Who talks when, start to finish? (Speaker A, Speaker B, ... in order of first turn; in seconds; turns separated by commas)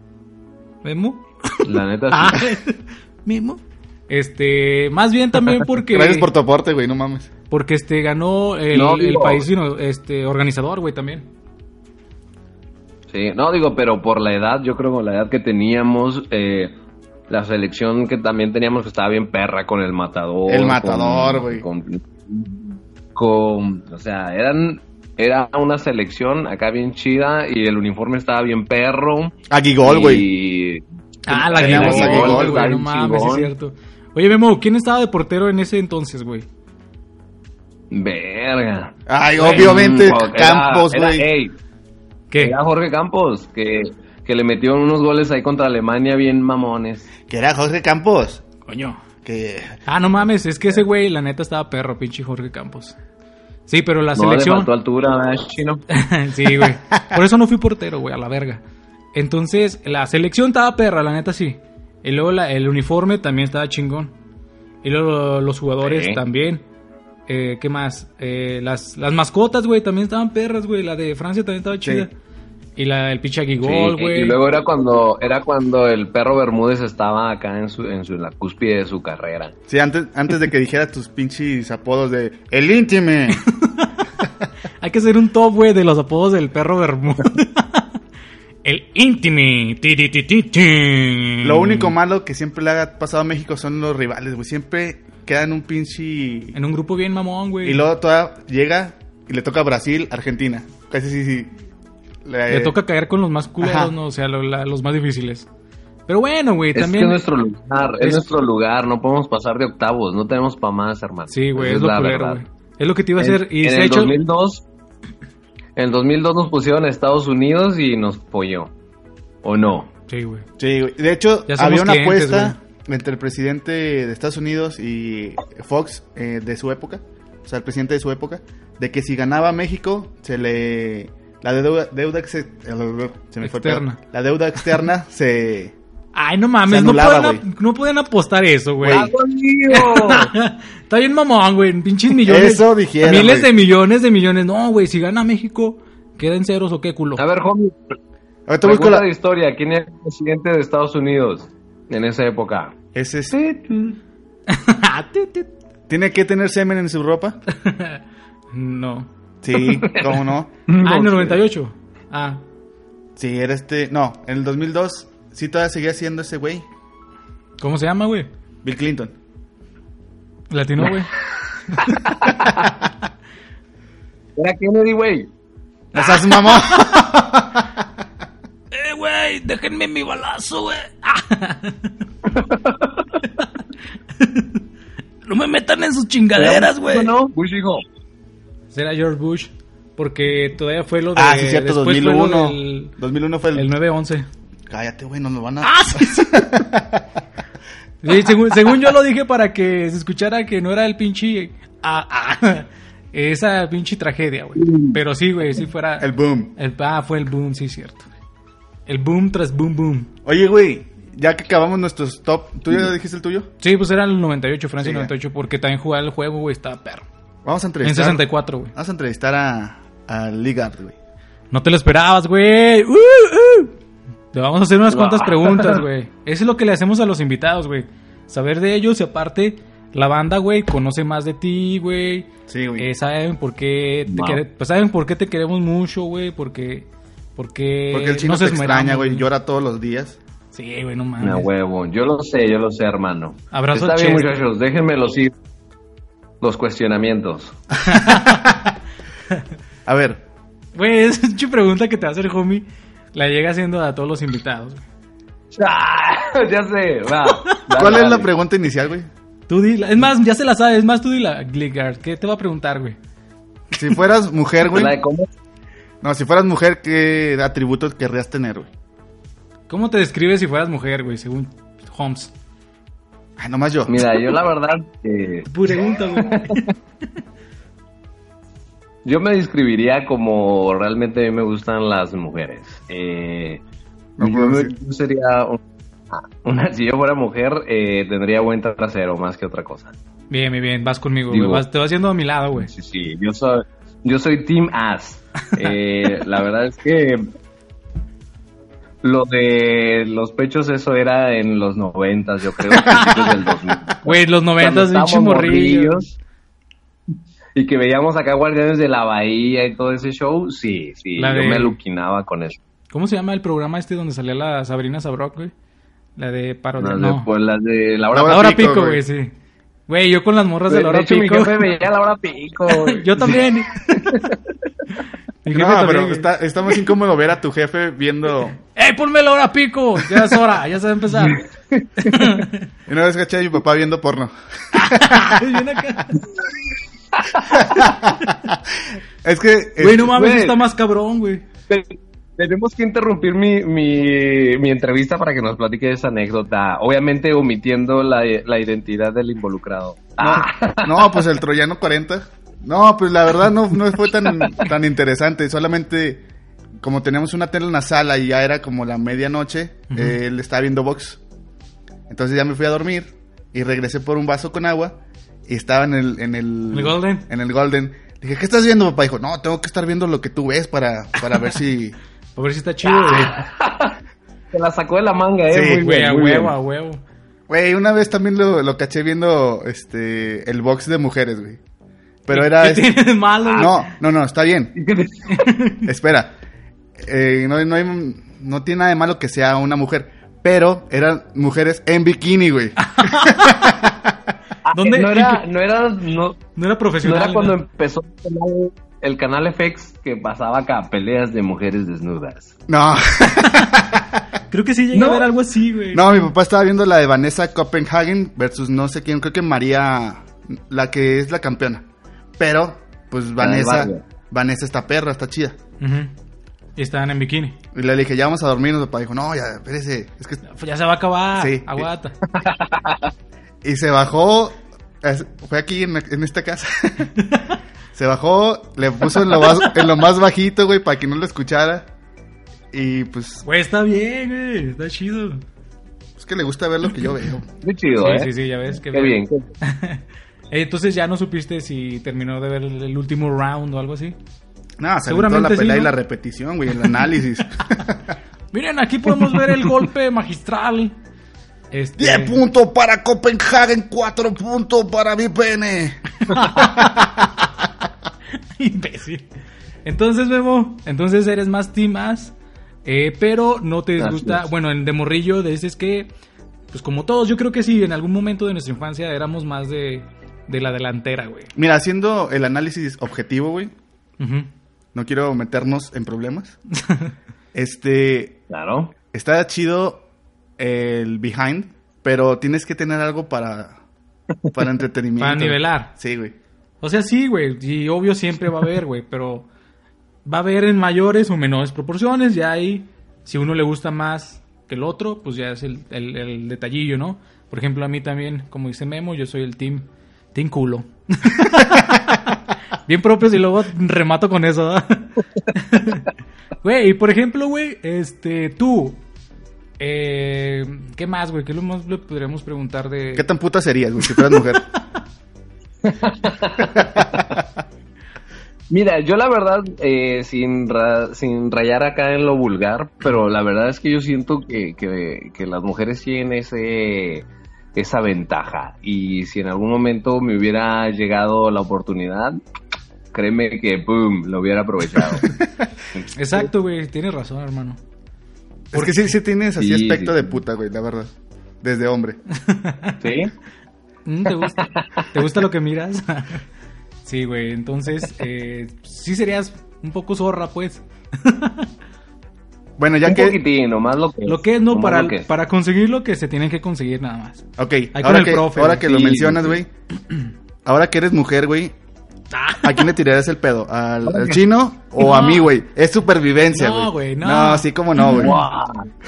Speaker A: 0.8-6.3, Speaker B: 1.6-2.5, Speaker C: 5.9-7.3, Speaker A: 7.5-11.3, Speaker B: 8.7-9.4, Speaker B: 13.1-16.7, Speaker B: 17.3-33.5, Speaker C: 20.5-21.6, Speaker C: 29.5-30.3, Speaker A: 31.3-36.5, Speaker C: 31.4-32.6, Speaker B: 37.9-41.5, Speaker C: 39.1-41.3, Speaker A: 39.4-39.8, Speaker B: 42.4-47.1, Speaker C: 47.3-48.4, Speaker A: 48.7-49.0, Speaker C: 49.2-49.8, Speaker A: 49.9-53.0, Speaker A: 53.7-54.7, Speaker B: 54.2-55.8, Speaker A: 55.9-58.6, Speaker A: 59.1-64.1, Speaker A: 64.8-66.6, Speaker B: 65.8-66.2, Speaker A: 67.3-72.1, Speaker C: 71.8-72.1, Speaker A: 72.8-74.4, Speaker B: 73.6-79.5, Speaker C: 79.7-83.5, Speaker A: 83.4-83.9, Speaker A: 84.8-87.9, Speaker A: 88.6-91.9, Speaker C: 91.4-96.6, Speaker A: 96.5-97.9, Speaker C: 97.6-101.5, Speaker C: 102.2-102.8, Speaker A: 102.5-105.5, Speaker C: 103.6-103.9, Speaker A: 106.1-107.2, Speaker B: 106.8-112.4, Speaker A: 108.0-108.3, Speaker A: 111.3-114.2, Speaker B: 113.2-114.6, Speaker B: 115.8-118.7, Speaker B: 119.4-119.9, Speaker A: 120.1-120.5, Speaker C: 120.6-135.7, Speaker A: 121.5-122.6, Speaker A: 133.4-134.0, Speaker A: 136.2-139.1, Speaker C: 136.7-137.4, Speaker C: 138.8-139.1, Speaker B: 138.9-140.3, Speaker A: 139.7-147.2, Speaker C: 142.2-143.5, Speaker B: 147.2-147.9, Speaker C: 148.5-149.1, Speaker B: 148.6-152.8, Speaker C: 152.9-153.4, Speaker B: 153.3-154.0, Speaker A: 154.5-155.5, Speaker C: 155.9-157.4, Speaker A: 157.5-159.1, Speaker C: 159.4-160.5, Speaker B: 159.6-161.4, Speaker A: 160.8-162.4, Speaker C: 163.2-166.7, Speaker A: 167.6-168.3, Speaker C: 168.6-169.1, Speaker A: 170.5-171.1, Speaker B: 170.8-172.7, Speaker A: 171.7-172.0, Speaker B: 174.4-175.3, Speaker A: 175.9-177.0, Speaker C: 175.9-177.8, Speaker A: 178.7-182.0, Speaker B: 182.3-183.1, Speaker A: 184.2-184.6, Speaker A: 185.3-187.1, Speaker B: 186.3-187.8, Speaker A: 188.7-193.0, Speaker C: 191.2-193.7, Speaker A: 193.5-194.3, Speaker C: 194.7-197.1, Speaker A: 195.6-196.6, Speaker A: 198.0-208.1, Speaker B: 204.6-205.0, Speaker C: 206.0-206.6, Speaker A: 208.9-210.1, Speaker C: 210.2-213.5, Speaker A: 213.6-217.1, Speaker C: 214.8-215.1, Speaker C: 217.4-221.0, Speaker A: 217.8-218.7, Speaker A: 221.5-223.7, Speaker A: 224.3-239.3, Speaker B: 224.9-225.8, Speaker C: 232.5-232.9, Speaker B: 234.1-234.4, Speaker C: 237.9-240.2, Speaker A: 240.5-241.5, Speaker B: 241.2-245.3, Speaker A: 243.5-244.3, Speaker B: 246.4-247.6, Speaker A: 247.9-248.6, Speaker C: 248.1-248.6, Speaker C: 249.9-250.2, Speaker A: 250.8-254.8, Speaker B: 255.5-258.3, Speaker C: 257.7-259.1, Speaker A: 259.5-263.0, Speaker C: 263.7-264.9, Speaker B: 264.7-265.3, Speaker C: 266.0-268.7, Speaker A: 269.7-272.3, Speaker C: 273.4-274.1, Speaker B: 273.9-275.5, Speaker A: 275.5-276.7, Speaker B: 276.2-276.6, Speaker B: 279.1-283.6, Speaker C: 284.2-284.7, Speaker B: 284.2-285.6, Speaker B: 286.1-289.9, Speaker A: 290.3-292.7, Speaker B: 291.3-291.6, Speaker B: 292.6-297.3, Speaker B: 299.0-306.1, Speaker C: 302.9-303.2, Speaker A: 304.0-306.1, Speaker B: 307.6-312.6, Speaker A: 311.2-311.8, Speaker A: 312.9-315.5, Speaker A: 316.2-317.3, Speaker B: 316.8-318.5, Speaker C: 318.1-319.0, Speaker A: 318.3-319.3, Speaker A: 319.9-321.8, Speaker B: 320.7-324.4, Speaker A: 322.7-324.2, Speaker A: 325.4-326.3, Speaker C: 325.5-328.6, Speaker A: 328.6-331.4, Speaker B: 331.2-332.4, Speaker A: 332.0-332.6, Speaker C: 332.9-335.4, Speaker A: 334.7-336.2, Speaker B: 337.1-337.9, Speaker C: 337.5-338.6, Speaker C: 339.2-340.1, Speaker A: 339.8-341.4, Speaker B: 340.1-340.6, Speaker B: 341.7-351.2, Speaker C: 350.2-356.3, Speaker B: 354.3-354.7, Speaker C: 356.8-361.2, Speaker A: 359.9-360.2, Speaker C: 362.1-372.0, Speaker A: 366.7-367.3, Speaker A: 372.4-373.4, Speaker B: 372.8-374.0, Speaker B: 374.5-376.5, Speaker C: 375.5-375.8, Speaker A: 375.7-377.0, Speaker C: 377.5-381.6, Speaker C: 382.2-384.7, Speaker A: 382.3-383.9, Speaker B: 384.8-385.5, Speaker A: 385.3-385.9, Speaker C: 385.9-386.4, Speaker C: 387.0-394.1, Speaker A: 392.8-393.8, Speaker B: 394.7-396.4, Speaker A: 394.7-395.4, Speaker A: 396.6-397.6, Speaker B: 397.0-402.6, Speaker C: 402.7-404.2, Speaker A: 403.4-403.8, Speaker A: 404.5-406.1, Speaker B: 404.9-405.2, Speaker C: 405.9-411.9, Speaker C: 412.4-415.6, Speaker B: 413.4-414.0, Speaker A: 415.8-416.1, Speaker A: 416.8-417.6, Speaker C: 417.7-420.4, Speaker A: 420.5-422.2, Speaker C: 421.4-421.9, Speaker B: 422.3-423.1, Speaker C: 423.6-427.1, Speaker A: 427.2-427.6, Speaker C: 427.9-431.9, Speaker C: 432.7-433.4, Speaker A: 433.4-435.4, Speaker C: 436.2-437.5, Speaker B: 437.6-438.3, Speaker A: 438.0-444.2, Speaker B: 438.9-439.5, Speaker C: 444.8-448.2, Speaker A: 445.1-445.9, Speaker A: 448.5-451.0, Speaker A: 451.7-452.4, Speaker C: 452.0-457.4, Speaker A: 456.2-457.1, Speaker A: 458.6-459.2, Speaker A: 459.9-462.3, Speaker A: 462.9-466.1, Speaker B: 464.0-464.4, Speaker A: 466.7-471.5, Speaker C: 471.6-473.7, Speaker A: 474.2-474.5, Speaker C: 474.9-476.6, Speaker A: 476.8-477.1, Speaker C: 477.5-478.4, Speaker B: 478.5-478.9, Speaker C: 479.1-480.1, Speaker C: 480.6-483.8, Speaker C: 484.5-486.4, Speaker A: 485.2-485.9, Speaker A: 486.8-489.5, Speaker A: 490.2-506.1, Speaker A: 506.6-509.0, Speaker A: 509.8-513.3, Speaker C: 513.2-514.7, Speaker B: 515.8-517.4, Speaker B: 518.7-532.4, Speaker B: 533.1-535.3, Speaker B: 535.9-536.5, Speaker A: 536.1-537.8, Speaker C: 538.7-542.2, Speaker A: 538.8-539.1, Speaker B: 539.6-540.3, Speaker A: 542.3-543.0, Speaker B: 543.0-543.3, Speaker A: 544.1-546.4, Speaker B: 544.6-545.1, Speaker A: 547.0-551.7, Speaker C: 552.8-553.4, Speaker B: 553.1-555.3, Speaker A: 554.3-558.9, Speaker C: 557.6-559.7, Speaker B: 558.8-559.6, Speaker C: 560.6-561.8, Speaker A: 562.3-562.9, Speaker C: 562.6-568.4, Speaker B: 564.0-564.4, Speaker A: 565.0-565.5, Speaker A: 566.5-568.3, Speaker B: 568.0-568.9